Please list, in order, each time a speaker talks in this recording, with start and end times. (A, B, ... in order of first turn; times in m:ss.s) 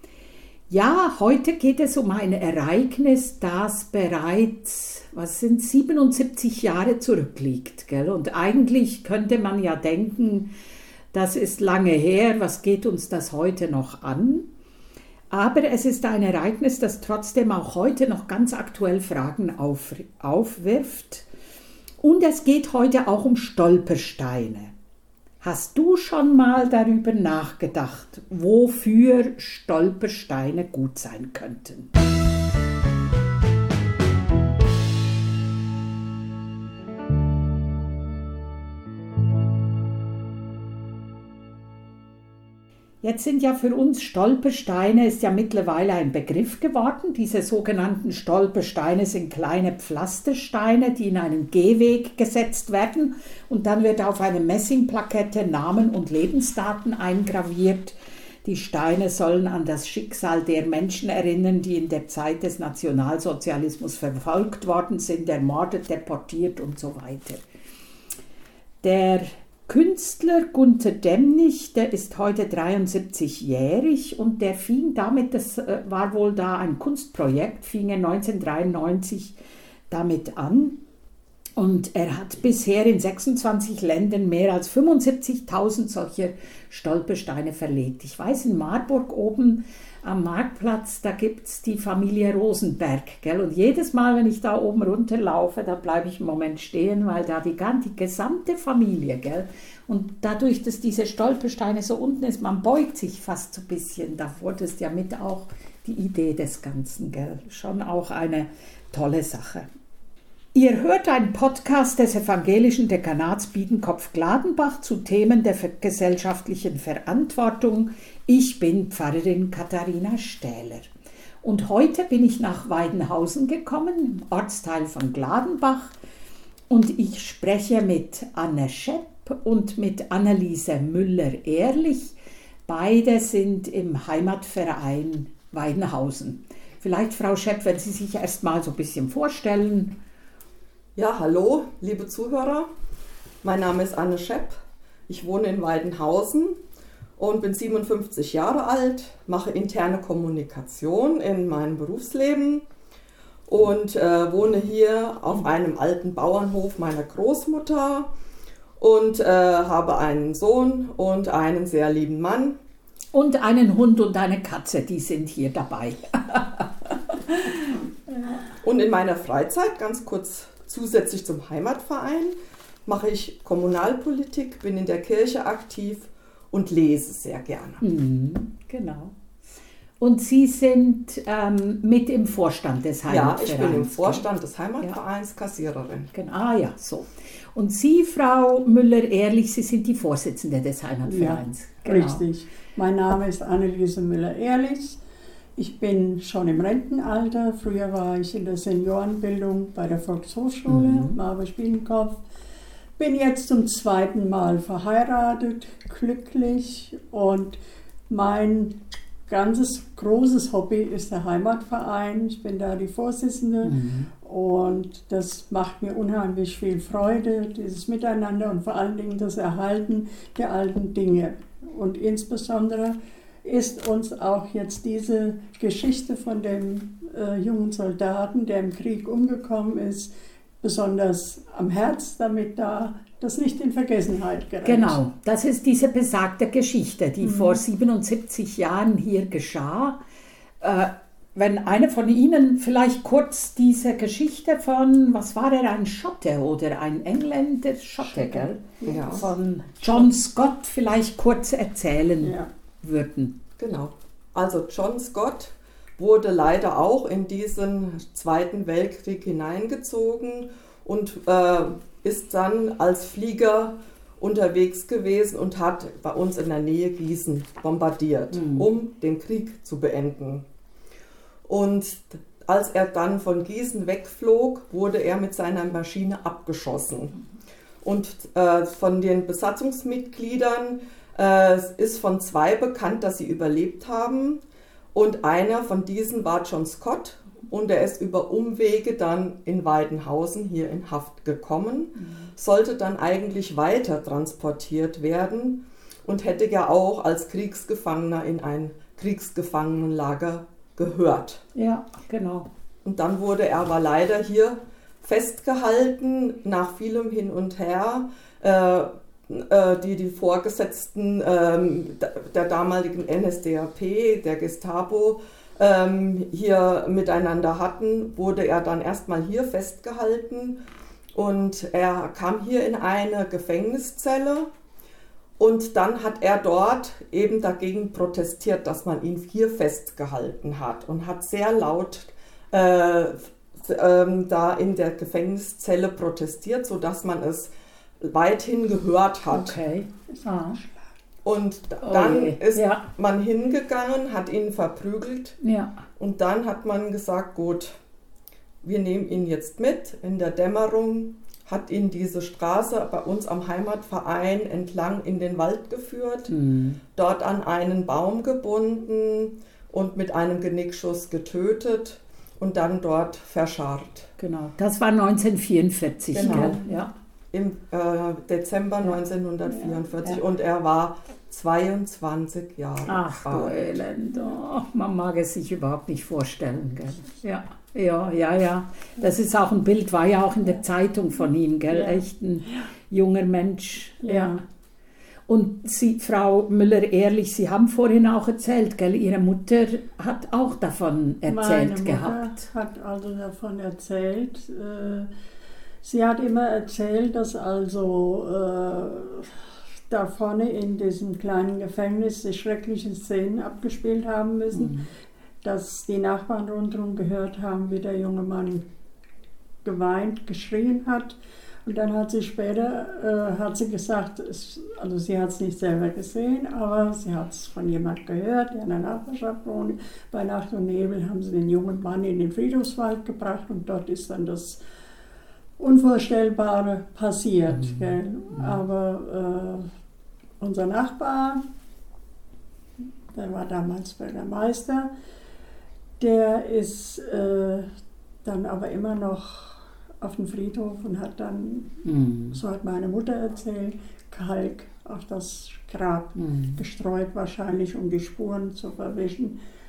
0:00.7-0:10.5 A
0:11.1-0:14.5 A
0:15.3-0:21.2 A
0:22.0-0:24.7 A
0:25.4-0:31.9 A
0:43.0-1:07.4 A
1:08.8-1:19.3 A
1:19.9-1:20.8 A
1:21.6-1:49.7 A
1:50.5-2:00.9 A
2:01.4-2:05.9 A
2:06.7-2:19.9 A
2:21.0-2:22.7 B
2:23.4-2:24.6 B
2:25.1-2:26.6 B
2:27.2-2:32.6 B
2:33.5-2:38.1 B
2:38.8-2:42.6 B
2:43.1-2:47.8 A
2:48.6-2:57.8 B
2:57.8-2:59.1 A
3:00.0-3:04.2 A
3:03.0-3:06.1 B
3:06.1-3:12.2 A
3:11.0-3:15.0 C
3:15.6-3:22.2 C
3:20.7-3:21.2 A
3:23.0-3:27.6 C
3:28.1-3:28.8 C
3:29.3-3:55.0 C
3:33.6-3:34.1 A
3:54.6-4:00.0 A
3:57.2-3:57.6 C
4:00.6-4:13.4 A
4:08.1-4:09.3 C
4:08.6-4:09.3 B
4:12.2-4:12.5 C
4:13.6-4:30.4 B
4:28.3-4:28.7 A
4:31.5-4:37.2 B
4:37.8-4:44.4 B
4:44.9-5:01.4 B
5:01.5-5:02.5 A
5:02.8-5:20.6 B
5:21.1-5:24.5 B
5:25.4-5:39.6 B
5:39.3-5:40.6 A
5:40.1-5:40.9 C
5:41.2-5:45.4 B
5:41.8-5:42.9 A
5:45.4-5:45.8 A
5:46.0-5:47.8 B
5:48.6-5:56.3 B
5:56.3-5:56.8 A
5:56.9-6:04.1 B
6:04.2-6:06.9 A
6:06.1-6:06.6 B
6:06.2-6:06.8 C
6:07.3-6:13.8 B
6:09.5-6:09.8 C
6:12.9-6:24.4 A
6:21.7-6:22.0 C
6:24.0-6:24.4 C
6:25.3-6:32.2 A
6:31.3-6:35.1 C
6:35.8-6:44.8 C
6:44.5-6:44.9 A
6:45.4-6:48.6 C
6:49.6-7:04.6 C
7:05.6-7:09.7 C
7:07.5-7:08.6 A
7:10.4-7:11.4 C
7:13.1-7:14.9 C
7:16.0-7:17.7 C
7:18.2-7:21.7 C
7:21.8-7:22.4 A
7:22.3-7:29.4 C
7:26.2-7:26.6 A